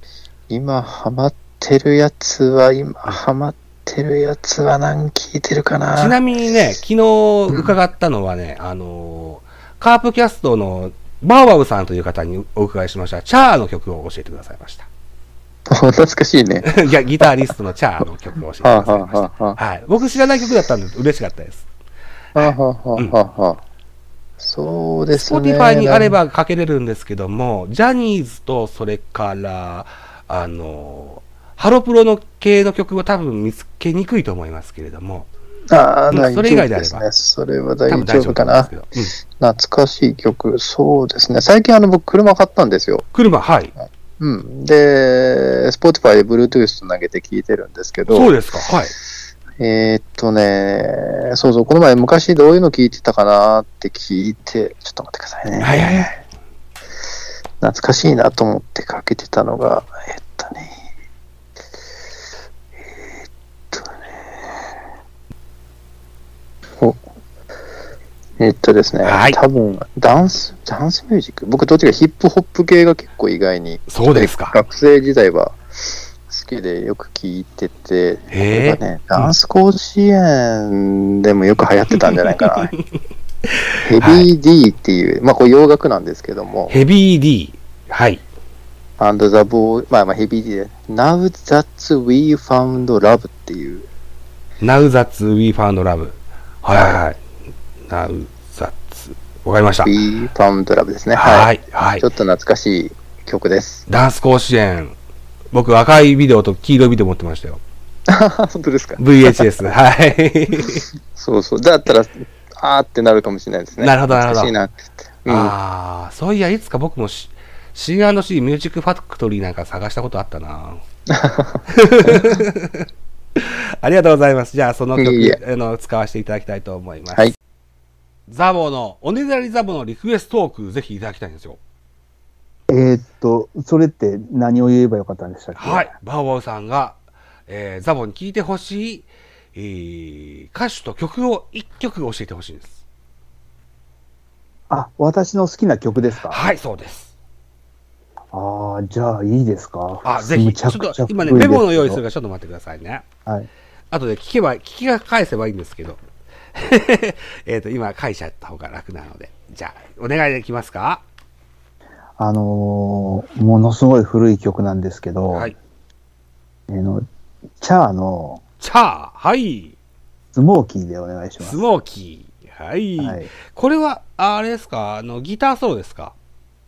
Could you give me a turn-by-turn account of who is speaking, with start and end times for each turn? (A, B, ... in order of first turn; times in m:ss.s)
0:00.5-0:06.2 A
0:05.9-0:14.9 B
0:15.7-0:16.7 A
0:16.6-0:21.7 B
0:18.6-0:19.6 A
0:22.3-0:23.6 A
0:22.4-0:23.2 B
0:24.4-0:26.2 A
0:25.1-0:35.3 B
0:35.7-0:38.8 A
0:36.1-0:37.0 B
0:37.9-0:39.1 B
0:39.4-0:43.0 A
0:43.1-0:43.7 B
0:43.7-0:48.4 A
0:48.1-0:48.9 B
0:49.6-0:56.1 A
0:55.6-0:56.1 B
0:57.6-1:00.7 A
1:03.7-1:04.2 A
1:08.4-1:15.6 A
1:09.0-1:09.4 B
1:13.9-1:14.6 B
1:16.3-1:22.7 A
1:18.3-1:19.3 B
1:21.9-1:22.8 B
1:23.8-1:26.8 A
1:24.0-1:24.3 B
1:26.7-1:28.2 B
1:29.0-1:33.9 A
1:34.6-1:37.2 B
1:36.7-1:37.0 A
1:37.9-1:39.9 B
1:39.8-1:43.8 A
1:41.1-1:42.0 B
1:43.9-1:45.0 B
1:45.5-1:47.6 B
1:48.1-1:49.5 A
1:49.0-1:50.8 B
1:51.1-1:55.5 A
1:53.8-1:54.5 B
1:55.3-2:00.8 B
2:01.1-2:02.4 A
2:01.8-2:02.9 B
2:03.4-2:07.3 B
2:05.0-2:05.4 A
2:08.3-2:11.6 B
2:12.7-2:15.9 C
2:15.6-2:22.8 B
2:24.7-2:26.4 C
2:26.3-2:27.1 B
2:28.3-2:32.0 C
2:30.0-2:33.0 B
2:33.9-2:36.0 B
2:36.5-2:41.0 B
2:42.2-2:45.5 C
2:46.7-2:47.0 C
2:47.6-2:48.4 C
2:48.6-2:49.8 B
2:50.3-2:51.6 C
2:51.4-2:56.1 B
2:53.0-2:53.3 C